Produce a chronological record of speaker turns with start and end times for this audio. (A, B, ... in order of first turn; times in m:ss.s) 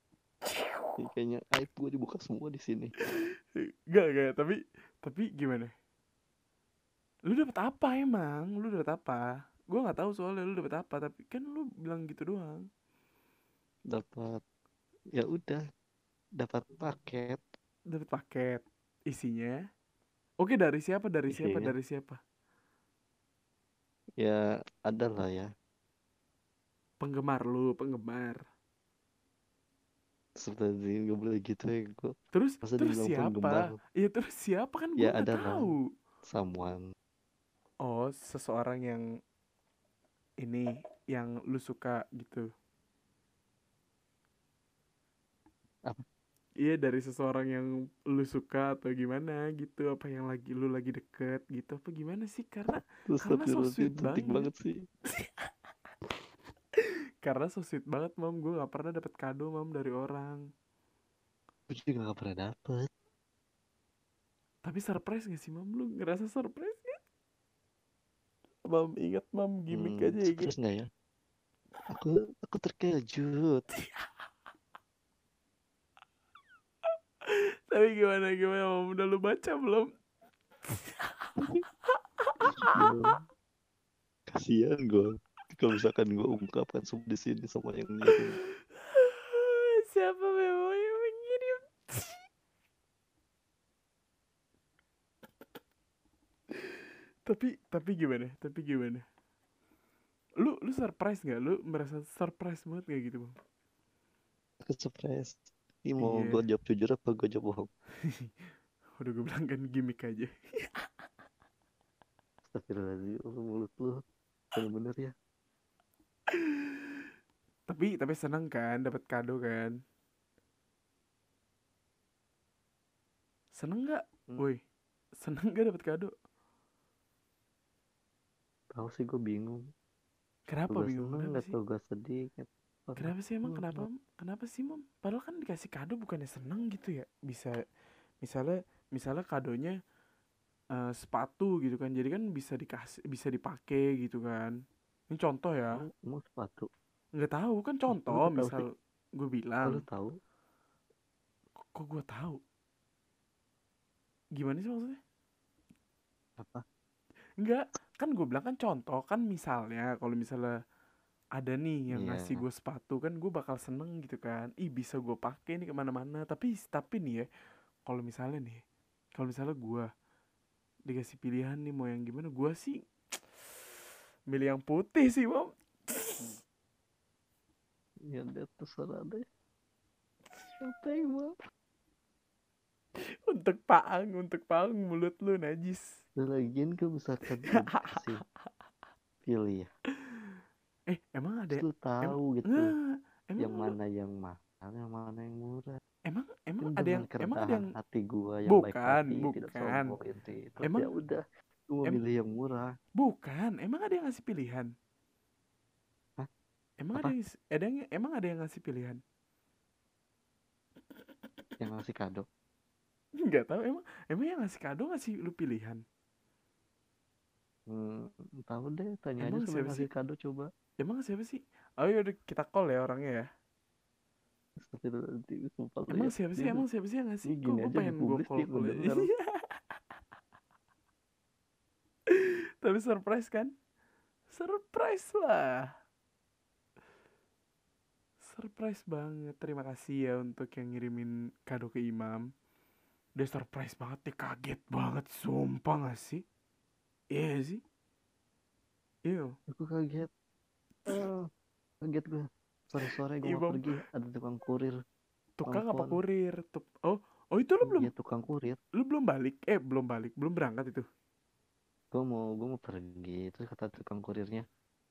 0:00.5-0:01.0 A
0:01.0-0:02.9 B
0:03.0-0:05.7 A
0:07.3-0:12.7 A
0:13.9-0:14.4 B
0:15.1-0:15.6 B
0:16.4-0:17.4 B
0:17.9-0:19.6 A
0:20.4-0:22.2 A
0:21.3-0:21.7 B
0:24.2-0:25.5 B
0:27.0-0:28.4 A
0:30.4-0:33.7 B
0:32.3-0:35.8 A
0:35.0-0:35.7 B
0:36.3-0:36.8 B
0:37.8-0:39.0 A
0:40.4-0:42.5 A
0:46.6-0:54.5 A
0:53.1-0:54.8 B
0:55.1-0:55.5 A
0:56.8-1:00.4 A
1:01.7-1:02.9 B
1:04.6-1:07.0 A
1:08.6-1:10.5 A
1:09.7-1:10.9 B
1:11.9-1:13.6 B
1:13.7-1:14.1 A
1:17.2-1:19.9 A
1:20.7-1:21.5 A
1:22.2-1:23.1 A
1:22.7-1:23.2 B
1:24.3-1:28.4 B
1:28.7-1:32.2 A
1:36.5-1:39.0 A
1:40.4-1:43.3 A
1:44.6-1:47.7 B
1:46.0-1:46.4 A
1:48.0-1:48.3 A
1:49.0-1:50.9 A
1:52.5-1:54.0 B
1:54.5-1:55.1 B
1:56.3-1:57.0 A
1:57.7-1:59.7 A
2:03.6-2:04.6 A
2:05.2-2:06.1 A
2:08.7-2:09.6 B
2:10.5-2:11.6 A
2:10.7-2:13.9 B
2:13.0-2:17.5 A
2:18.2-2:19.8 A
2:20.7-2:24.5 A
2:25.1-2:25.8 A
2:25.8-2:26.7 B
2:27.2-2:29.8 A
2:27.9-2:28.6 B
2:29.7-2:30.1 B
2:31.7-2:32.4 A
2:34.4-2:35.0 A
2:36.4-2:36.6 B
2:37.4-2:40.5 A
2:41.4-2:47.3 A
2:41.9-2:42.4 B
2:47.9-2:48.6 A
2:49.2-2:49.9 A
2:50.9-2:52.8 A
2:54.3-2:56.3 A
2:58.1-2:59.2 B
3:00.6-3:01.4 B
3:03.0-3:06.0 A
3:06.2-3:08.2 B
3:07.5-3:08.1 A
3:09.3-3:09.7 B
3:10.0-3:10.3 A
3:10.9-3:13.8 A
3:11.5-3:12.7 B
3:13.4-3:15.8 B
3:16.1-3:17.7 A
3:16.6-3:22.7 B
3:18.5-3:20.0 A
3:20.6-3:20.9 A
3:23.0-3:24.7 A
3:26.8-3:29.0 A
3:31.6-3:32.3 B
3:33.2-3:35.8 A
3:37.7-3:40.5 B
3:39.2-3:39.9 A
3:40.8-3:43.3 A
3:44.6-3:46.6 B
3:45.9-3:49.8 A
3:47.3-3:49.1 B
3:52.1-3:53.5 A
3:54.3-3:55.7 A
3:58.2-4:02.2 A
4:03.2-4:06.2 A
4:07.1-4:07.6 A
4:09.1-4:09.3 A
4:09.5-4:10.1 B
4:10.9-4:11.2 B
4:11.8-4:14.8 B
4:13.2-4:13.7 A
4:15.4-4:17.9 A
4:15.5-4:16.0 B
4:17.6-4:18.6 B
4:18.8-4:20.8 A
4:21.9-4:24.4 B